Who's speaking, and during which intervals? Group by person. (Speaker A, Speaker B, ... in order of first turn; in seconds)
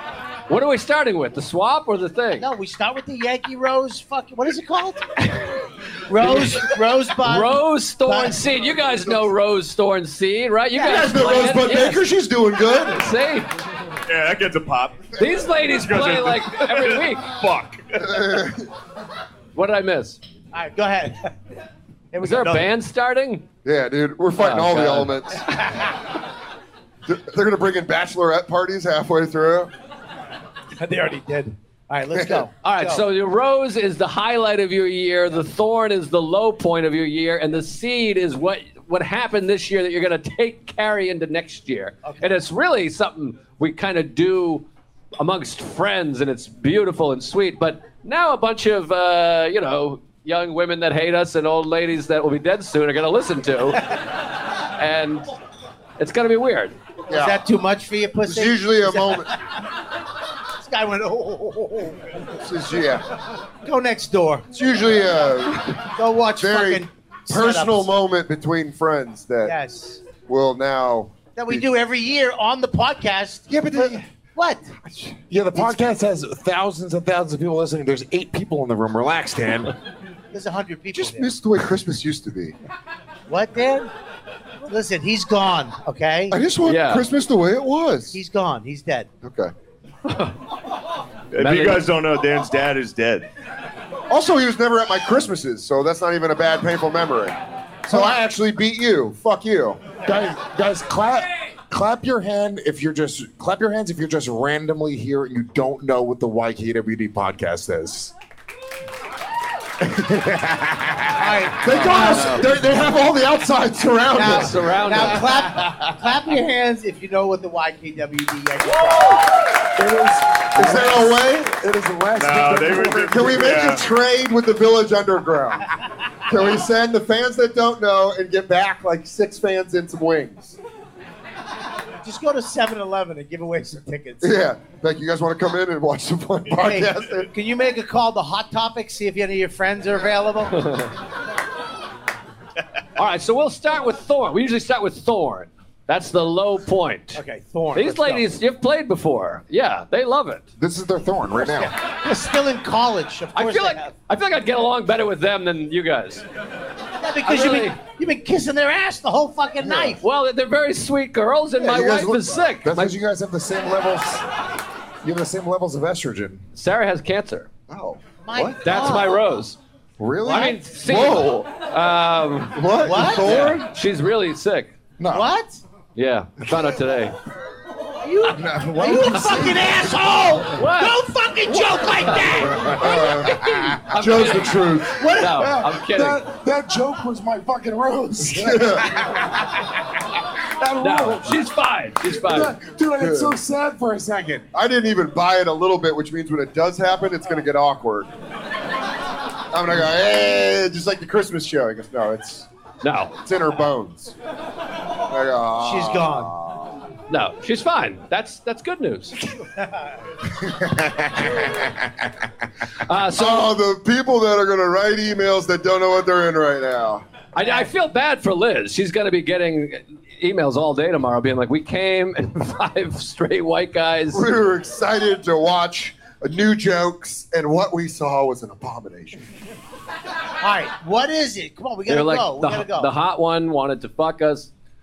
Speaker A: 0.5-2.5, 6.2-6.6, 7.2-12.0, 12.9-13.5, 15.2-17.4, 19.5-20.2, 22.2-23.4, 24.4-25.2, 32.6-44.6, 45.2-54.0, 54.8-55.3, 56.0-56.7, 86.6-87.0, 90.0-90.4, 91.4-91.8, 111.7-112.5, 114.2-115.5, 140.6-140.9, 142.9-147.2, 147.7-150.4, 153.3-156.2, 157.2-157.8, 160.0-163.0, 166.5-167.5, 168.6-169.6, 170.2-174.7, 175.9-177.2, 180.5-181.0, 181.8-186.2, 190.8-192.5, 202.8-203.1, 207.1-209.2, 212.8-213.5, 217.3-224.2, 231.9-234.5
Speaker B: 2.4-5.0, 6.1-8.4, 10.8-11.0, 20.5-21.3, 22.1-22.7, 30.8-33.0, 42.0-42.3, 57.1-59.3, 60.6-62.1, 63.6-64.5, 66.0-67.9, 69.4-70.0, 71.3-74.7, 75.5-75.8, 80.3-81.3, 83.3-83.9, 84.7-86.4, 88.1-89.1, 111.1-112.4, 114.1-119.3, 132.0-134.4, 136.6-140.6, 147.1-148.2, 151.5-153.9, 157.0-160.0, 168.2-169.2, 172.8-173.3, 175.1-175.6, 178.0-183.1, 185.0-185.3, 205.6-206.3, 209.4-209.9, 217.4-217.7, 230.4-232.9
Speaker C: 10.8-13.0, 18.0-18.7, 23.6-25.4, 27.1-29.7, 32.1-32.4, 57.1-57.4, 58.2-59.3, 62.4-63.0, 64.5-69.5, 70.2-71.6, 73.5-74.0, 74.8-75.2, 80.9-82.5, 86.3-88.2, 89.2-89.5, 94.1-99.8, 111.6-114.5, 120.5-121.5, 123.0-125.7, 126.3-130.6, 134.2-137.3, 159.6-160.0, 161.6-162.5, 167.7-168.6, 170.8-171.5, 172.5-173.7, 182.7-185.0, 188.2-188.9, 193.0-193.4, 194.5-198.1, 199.5-202.5, 203.2-204.1, 205.1-206.8, 213.1-217.0, 224.1-229.2
Speaker D: 14.1-18.2, 91.3-93.2, 122.2-123.8
Speaker E: 75.3-79.7, 100.0-108.1, 109.8-111.3, 119.7-123.6, 150.6-151.7, 162.6-164.2, 165.0-166.4, 170.0-170.6, 175.0-175.3, 176.4-176.7, 178.3-180.1, 182.5-183.9, 185.2-189.6, 190.4-191.4, 192.1-194.4, 210.4-212.1